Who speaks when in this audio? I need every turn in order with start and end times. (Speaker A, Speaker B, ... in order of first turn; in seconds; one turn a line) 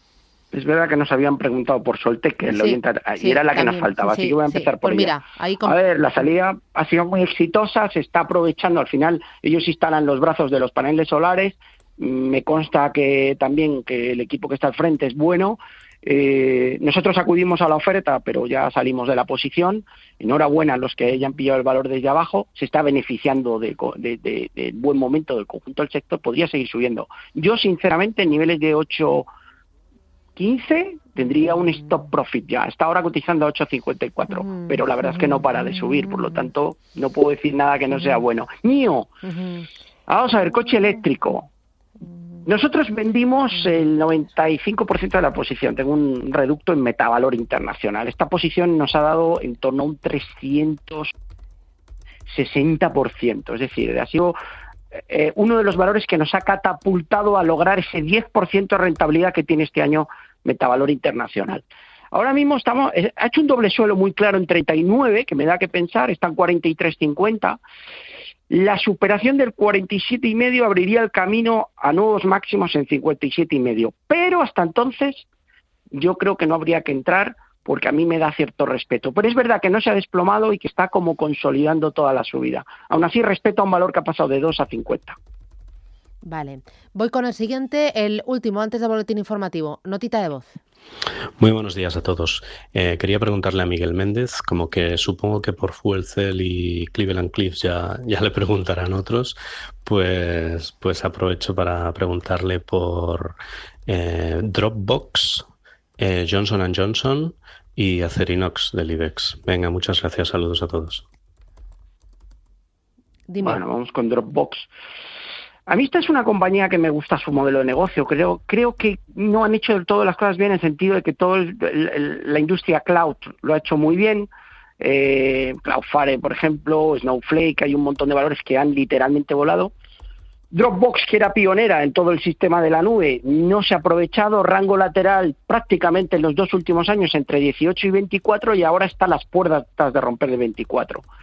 Speaker A: 0.5-29.3
Speaker B: 2.5-5.7
Speaker A: 30.4-39.1
Speaker B: 39.2-39.6
Speaker A: 40.1-41.5
Speaker A: 42.4-51.1
Speaker A: 52.3-54.4
Speaker A: 54.9-67.6
Speaker A: 68.5-75.2
Speaker A: 75.9-85.2
Speaker B: 86.2-90.6
Speaker C: 91.4-105.5
Speaker C: 106.0-111.0
Speaker B: 113.3-113.6
Speaker A: 113.4-114.7
Speaker A: 115.7-124.3
Speaker A: 124.8-129.7
Speaker A: 130.5-141.0